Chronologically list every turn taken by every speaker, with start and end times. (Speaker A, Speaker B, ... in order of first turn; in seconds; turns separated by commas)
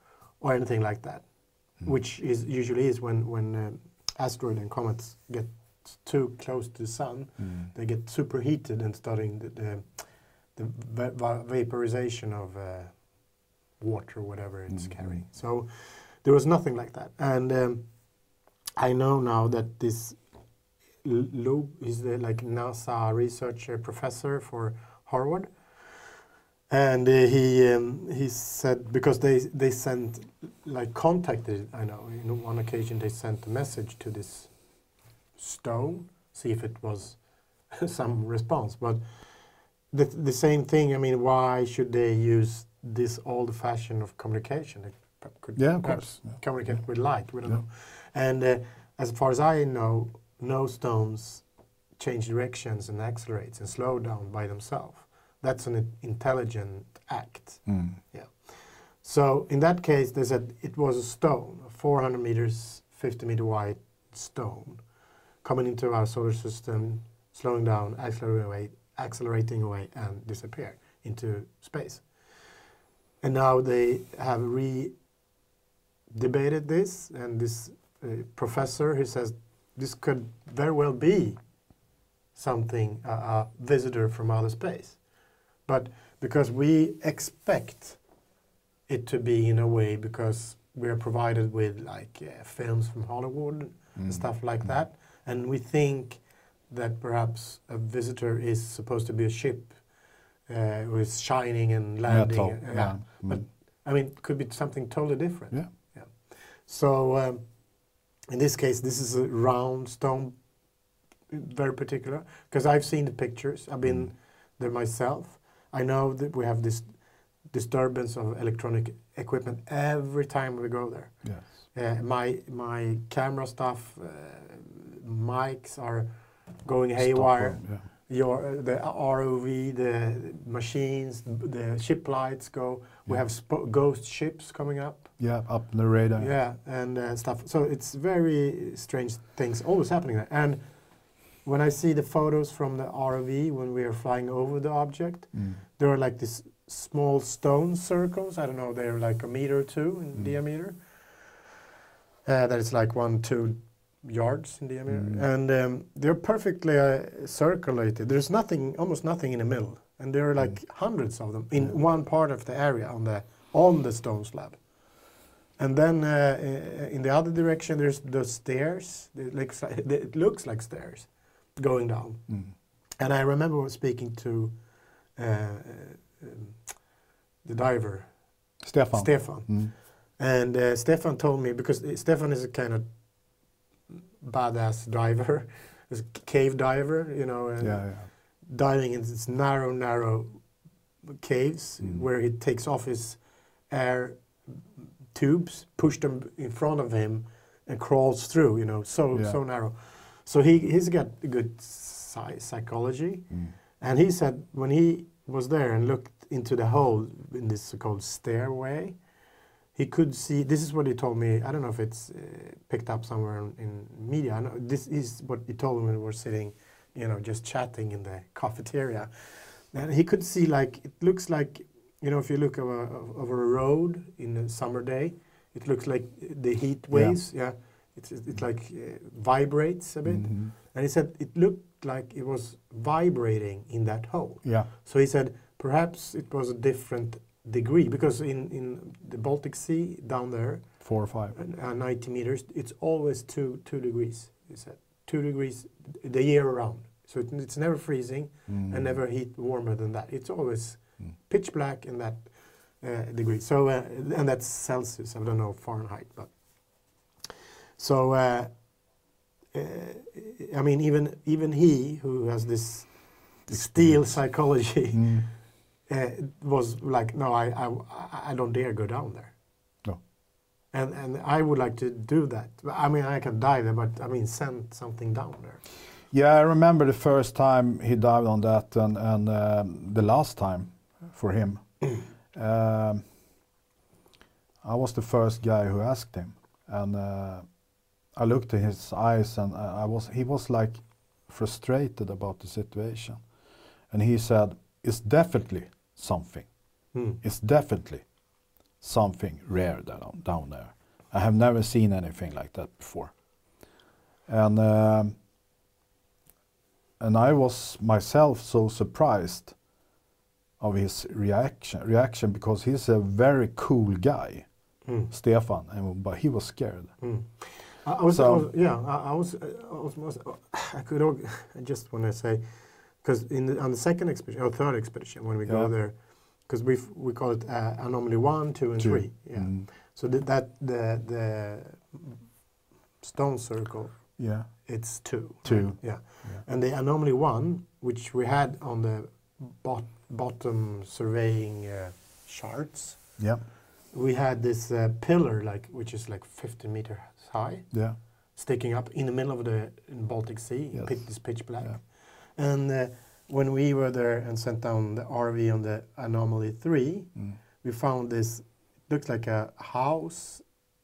Speaker A: 0.4-18.0, Speaker B: 14.7-15.2, Speaker A: 18.8-20.2, Speaker A: 21.0-25.9, Speaker A: 26.7-34.5, Speaker A: 35.4-51.5, Speaker B: 45.6-46.8, Speaker A: 52.0-64.8, Speaker B: 57.7-58.0, Speaker A: 65.4-72.1, Speaker A: 73.2-75.0, Speaker A: 76.1-81.4, Speaker A: 82.3-88.0, Speaker A: 88.9-107.7, Speaker B: 94.0-94.7, Speaker B: 102.1-103.5, Speaker A: 108.3-110.4, Speaker A: 111.3-135.2, Speaker B: 121.2-121.5, Speaker B: 127.0-127.9, Speaker B: 135.2-136.3, Speaker A: 136.2-151.3, Speaker B: 145.3-145.6, Speaker A: 152.2-164.7, Speaker B: 154.9-155.2, Speaker A: 165.6-172.3, Speaker A: 173.0-174.6, Speaker A: 175.1-176.9, Speaker A: 177.4-178.2, Speaker B: 178.6-179.7, Speaker A: 178.9-182.9, Speaker A: 184.2-190.5, Speaker B: 187.6-188.1, Speaker A: 191.1-194.5, Speaker A: 195.1-209.0, Speaker B: 199.1-199.4, Speaker A: 209.8-257.0, Speaker B: 226.9-227.2, Speaker B: 230.1-230.5, Speaker B: 234.4-234.7, Speaker B: 240.8-241.3, Speaker B: 248.5-248.9, Speaker A: 257.8-258.9, Speaker A: 259.5-265.3, Speaker B: 263.5-265.3, Speaker A: 265.9-269.4, Speaker A: 270.7-275.6, Speaker B: 276.1-283.0, Speaker B: 284.6-287.5, Speaker B: 288.2-293.2, Speaker B: 293.9-296.5, Speaker A: 296.9-297.2, Speaker B: 297.2-298.1, Speaker B: 298.8-303.1, Speaker B: 304.3-305.2, Speaker B: 307.0-309.6, Speaker B: 310.6-314.5, Speaker A: 314.9-315.1, Speaker B: 315.1-317.0, Speaker A: 317.0-332.2, Speaker B: 318.1-318.5, Speaker B: 328.8-329.7, Speaker A: 333.0-343.2, Speaker B: 334.2-336.4, Speaker B: 343.2-343.4, Speaker A: 343.9-347.8, Speaker B: 347.7-348.0, Speaker A: 348.4-360.5, Speaker B: 350.7-351.8